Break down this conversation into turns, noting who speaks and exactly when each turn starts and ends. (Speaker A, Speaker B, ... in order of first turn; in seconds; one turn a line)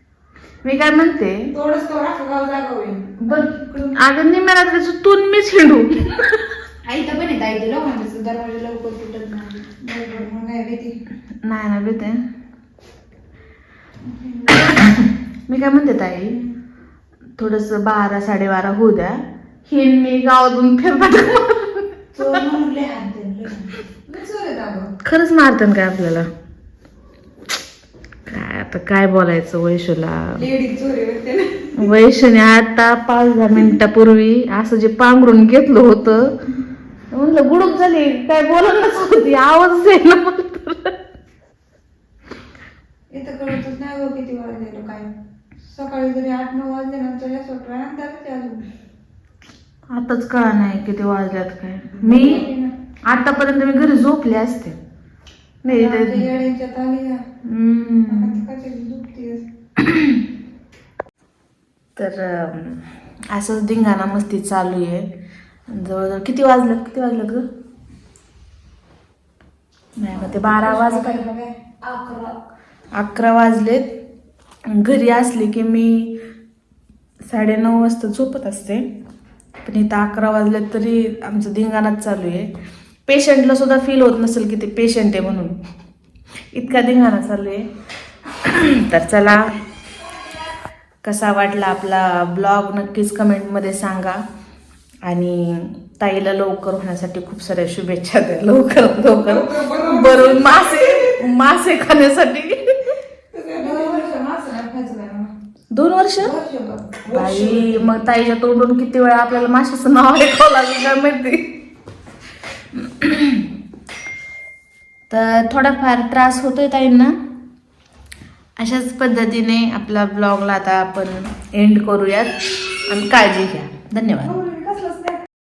Speaker A: 0.6-1.5
Speaker B: 1.5-4.0
Speaker A: 3.2-6.6
Speaker B: 6.8-10.9
Speaker A: 11.4-12.2
Speaker B: 14.0-14.9
Speaker A: 14.5-16.4
Speaker B: 16.3-16.5
Speaker A: 17.4-21.9
Speaker B: 22.1-24.9
Speaker A: 25.0-26.3
Speaker A: 28.3-30.4
Speaker B: 30.3-31.9
Speaker A: 31.8-36.4
Speaker A: 37.1-41.0
Speaker B: 43.1-45.1
Speaker B: 45.6-48.7
Speaker A: 49.9-52.4
Speaker B: 51.9-52.7
Speaker A: 53.1-54.8
Speaker A: 55.6-56.3
Speaker B: 55.7-57.2
Speaker A: 57.4-58.4
Speaker B: 58.1-59.5
Speaker A: 59.8-60.2
Speaker A: 62.0-65.1
Speaker A: 65.7-67.4
Speaker A: 70.0-71.2
Speaker B: 70.1-72.4
Speaker A: 73.0-73.9
Speaker A: 74.7-76.2
Speaker A: 77.3-78.8
Speaker A: 79.6-82.5
Speaker A: 83.1-85.5
Speaker A: 86.5-87.6
Speaker A: 88.4-89.6
Speaker A: 91.0-94.2
Speaker A: 95.0-103.0
Speaker B: 99.2-101.2
Speaker B: 103.3-105.3
Speaker A: 105.7-106.3
Speaker B: 106.2-107.9
Speaker A: 107.1-111.5
Speaker A: 112.7-113.5
Speaker A: 115.1-117.1
Speaker A: 118.6-124.4
Speaker B: 124.2-125.2